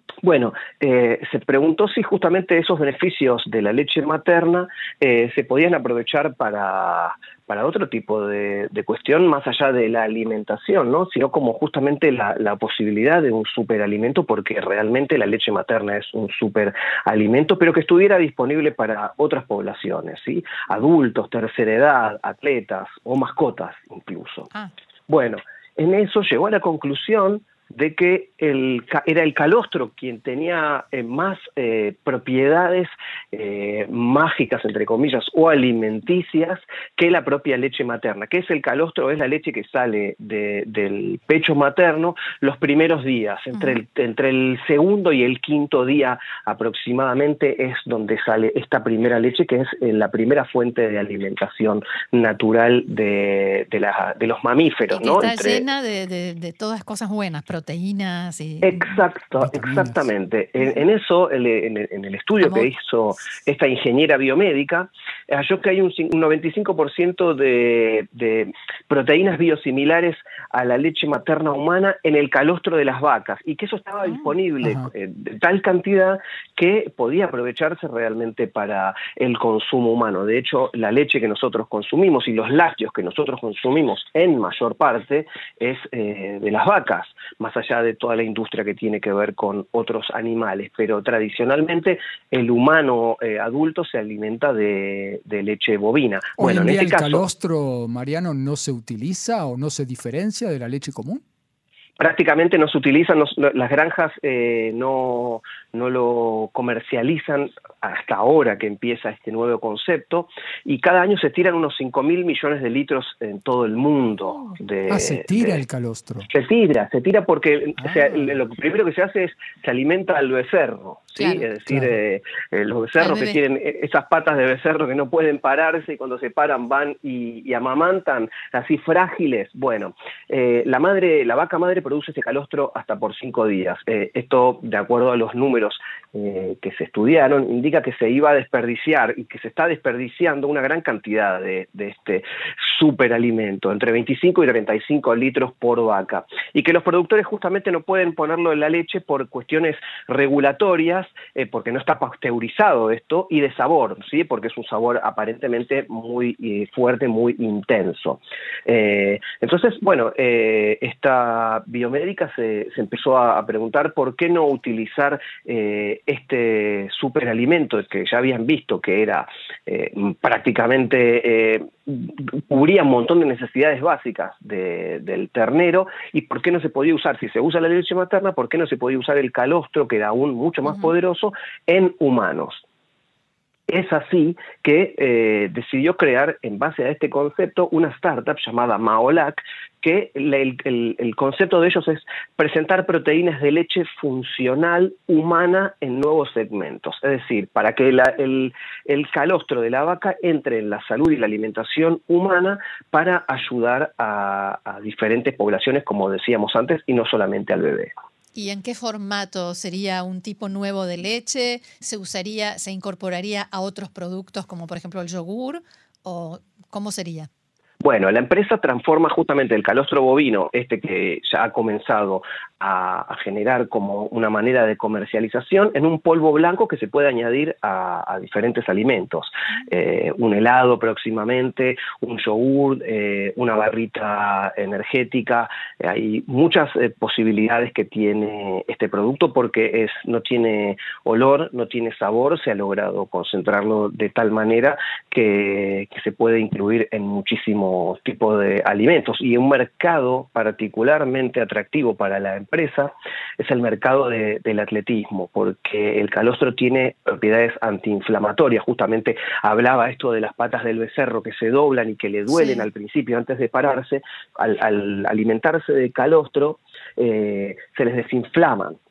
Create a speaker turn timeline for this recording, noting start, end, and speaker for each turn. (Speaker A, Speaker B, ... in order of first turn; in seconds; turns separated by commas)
Speaker A: 0.2-24.5, Speaker A: 25.1-55.6, Speaker B: 54.9-59.0, Speaker A: 58.6-97.2, Speaker C: 59.4-60.0, Speaker B: 62.4-62.7, Speaker C: 74.6-74.9, Speaker C: 96.4-101.2, Speaker A: 102.0-115.6, Speaker C: 114.9-116.3, Speaker A: 116.3-182.6, Speaker C: 117.8-118.2, Speaker B: 121.2-121.5, Speaker B: 123.0-123.4, Speaker A: 183.7-207.9, Speaker B: 208.3-217.3, Speaker A: 217.8-268.8, Speaker B: 262.3-262.7